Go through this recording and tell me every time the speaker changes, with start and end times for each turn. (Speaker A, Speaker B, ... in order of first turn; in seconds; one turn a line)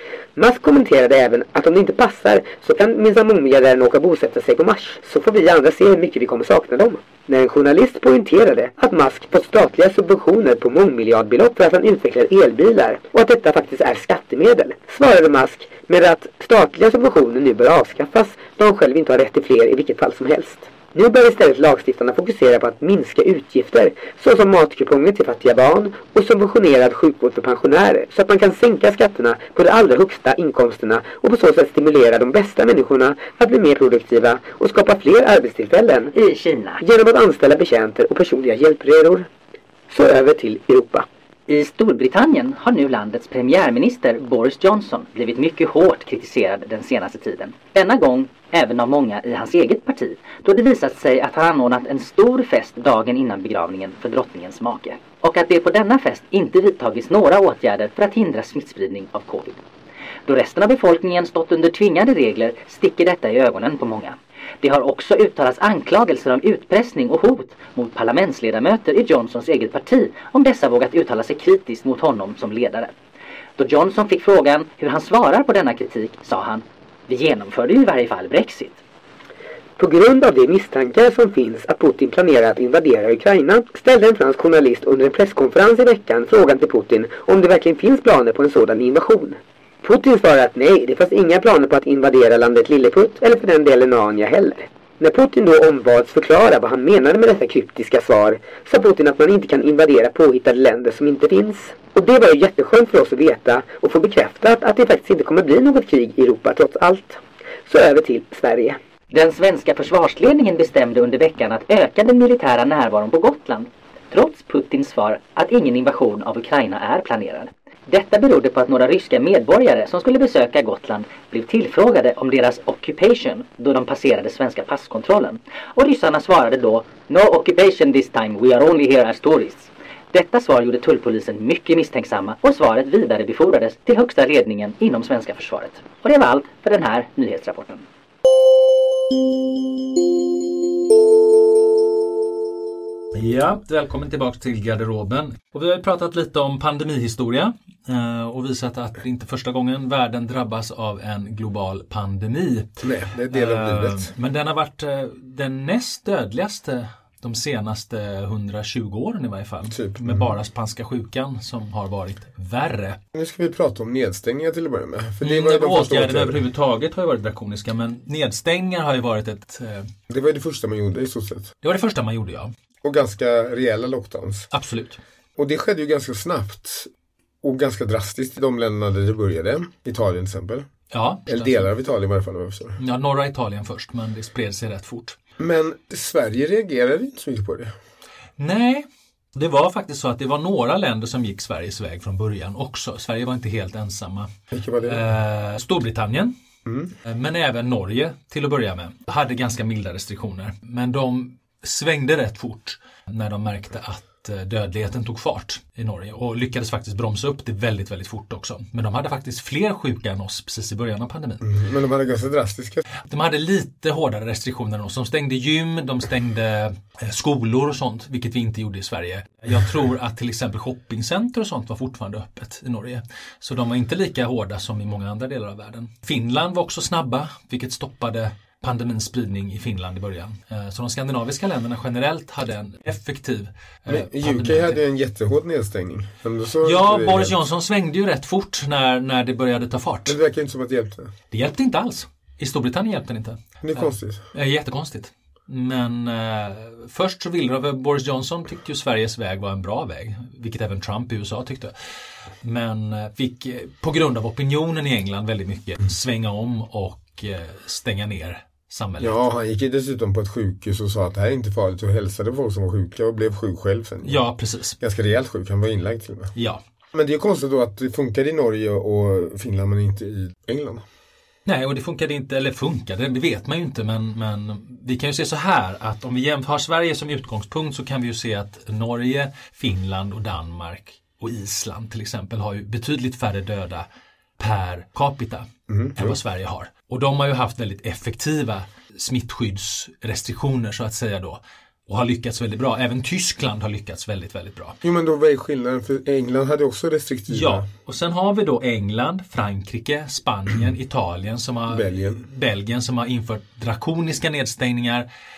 Speaker A: 0.3-36.1
Speaker B: 36.1-36.8
Speaker A: 36.8-39.3
Speaker A: 39.9-41.0
Speaker B: 41.5-59.6
Speaker B: 60.2-72.9
Speaker B: 73.6-78.8
Speaker A: 79.8-108.8
Speaker B: 109.1-137.8
Speaker C: 143.1-163.0
Speaker D: 152.8-154.1
Speaker D: 159.7-160.3
Speaker D: 163.1-166.4
Speaker C: 165.2-169.9
Speaker D: 170.1-171.5
Speaker C: 171.6-172.5
Speaker D: 172.8-174.5
Speaker C: 174.5-175.0
Speaker D: 175.4-176.9
Speaker D: 177.4-180.7
Speaker C: 180.9-181.7
Speaker D: 181.3-182.8
Speaker C: 182.8-185.2
Speaker D: 185.4-187.7
Speaker C: 188.4-194.3
Speaker D: 194.5-195.1
Speaker C: 194.8-196.3
Speaker D: 196.6-196.9
Speaker C: 197.0-211.4
Speaker D: 211.4-212.8
Speaker C: 213.1-234.8
Speaker D: 233.9-237.4
Speaker C: 236.6-240.2
Speaker D: 240.1-241.1
Speaker C: 241.3-251.7
Speaker D: 243.6-244.2
Speaker C: 252.4-259.2
Speaker D: 259.0-264.2
Speaker C: 264.0-264.8
Speaker D: 264.8-266.3
Speaker C: 266.3-266.6
Speaker D: 266.9-270.8
Speaker C: 271.4-283.9
Speaker C: 284.4-294.8
Speaker D: 285.7-286.2
Speaker D: 294.8-297.6
Speaker C: 297.3-305.1
Speaker D: 301.7-302.2